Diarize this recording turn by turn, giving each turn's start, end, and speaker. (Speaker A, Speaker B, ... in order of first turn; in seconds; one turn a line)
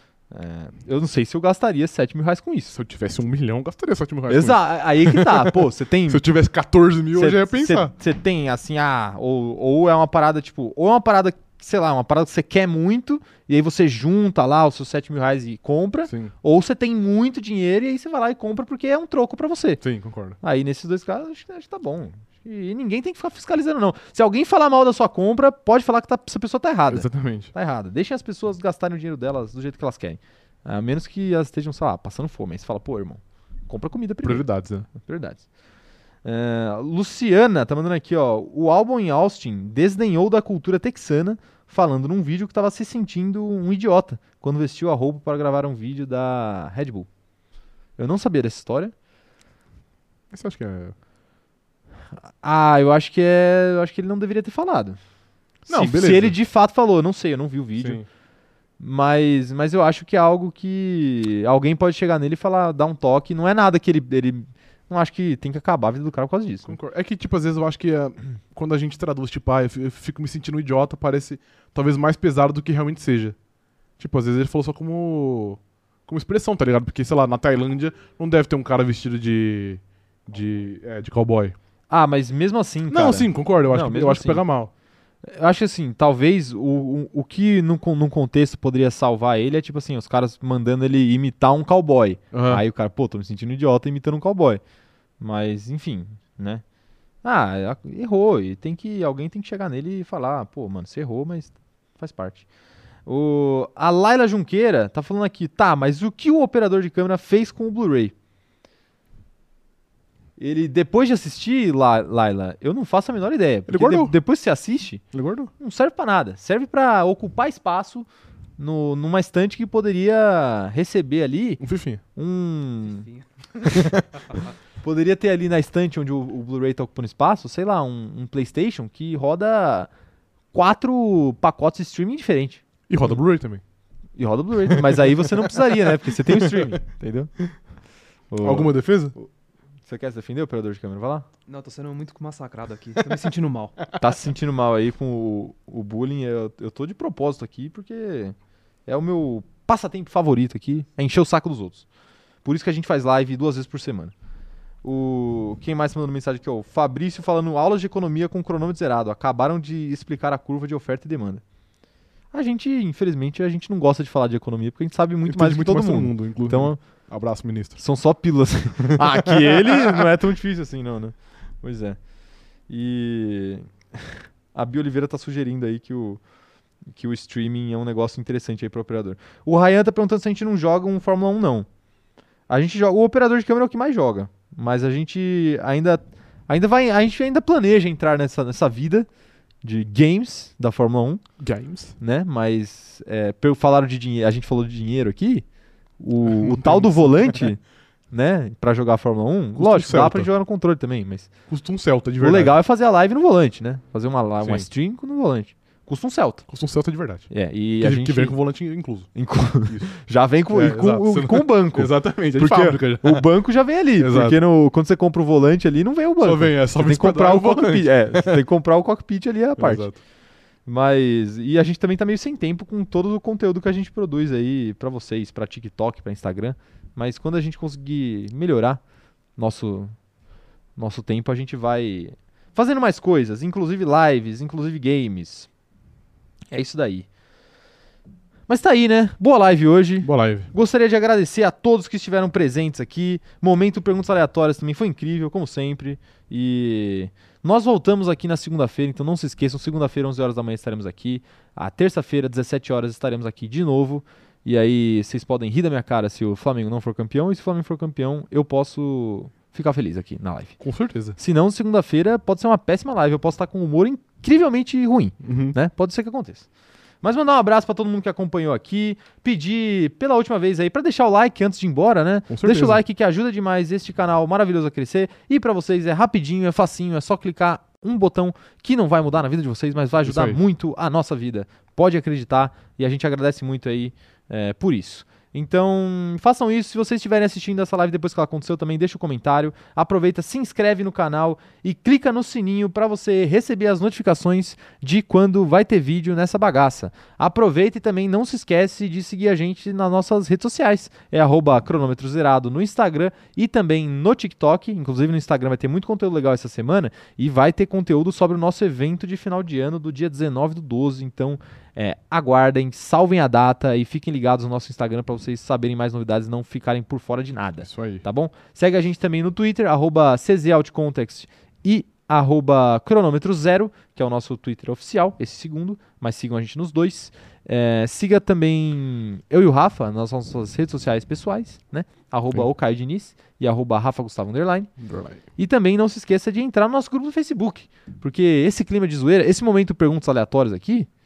Speaker A: 0.3-2.8
Speaker B: 2.7-7.9
Speaker A: 4.3-6.2
Speaker A: 7.1-19.8
Speaker B: 16.1-16.3
Speaker B: 19.8-20.4
Speaker A: 20.4-35.4
Speaker B: 26.9-27.5
Speaker B: 34.2-34.9
Speaker A: 36.2-47.1
Speaker A: 48.0-48.9
Speaker B: 50.3-50.9
Speaker A: 52.4-55.0
Speaker A: 55.6-58.0
Speaker B: 55.7-56.3
Speaker B: 57.8-58.0
Speaker A: 58.8-66.7
Speaker B: 66.7-73.3
Speaker B: 74.0-81.5
Speaker A: 81.9-84.4
Speaker B: 82.9-84.7
Speaker A: 85.2-94.6
Speaker B: 92.3-92.6
Speaker A: 95.2-96.6
Speaker A: 97.2-102.4
Speaker A: 103.0-108.1
Speaker A: 110.4-115.0
Speaker B: 113.7-114.2
Speaker B: 115.1-115.5
Speaker A: 115.6-121.6
Speaker B: 121.6-122.0
Speaker A: 122.1-123.0
Speaker C: 122.8-123.6
Speaker A: 124.8-129.9
Speaker A: 130.5-132.6
Speaker B: 132.9-133.6
Speaker A: 134.2-137.3
Speaker B: 134.7-136.8
Speaker A: 138.3-139.3
Speaker B: 138.4-139.1
Speaker A: 139.8-141.2
Speaker C: 141.5-143.8
Speaker A: 143.9-148.3
Speaker A: 148.9-151.8
Speaker A: 152.4-154.1
Speaker A: 154.8-161.4
Speaker A: 162.3-166.8
Speaker B: 165.2-167.8
Speaker A: 167.8-172.0
Speaker B: 168.9-170.0
Speaker A: 172.7-176.2
Speaker A: 176.9-181.7
Speaker A: 182.5-189.1
Speaker A: 189.6-191.2
Speaker B: 191.4-191.9
Speaker A: 192.0-195.4
Speaker A: 196.0-201.3
Speaker B: 196.2-197.4
Speaker B: 199.6-200.3
Speaker B: 201.5-202.5
Speaker A: 202.2-206.5
Speaker B: 204.4-204.7
Speaker B: 206.5-207.3
Speaker A: 207.3-208.4
Speaker B: 207.8-209.9
Speaker A: 209.1-219.9
Speaker B: 210.5-213.3
Speaker B: 214.0-214.4
Speaker B: 216.2-218.4
Speaker B: 219.6-220.0
Speaker A: 220.7-228.8
Speaker A: 229.4-229.9
Speaker A: 230.8-235.5
Speaker A: 236.5-237.1
Speaker A: 238.5-260.6
Speaker B: 240.0-240.5
Speaker B: 260.6-261.2
Speaker A: 261.1-266.5
Speaker B: 265.2-265.6
Speaker A: 267.0-334.7
Speaker B: 272.3-272.8
Speaker B: 280.0-280.4
Speaker B: 317.6-318.0
Speaker B: 334.8-335.2
Speaker A: 335.4-340.9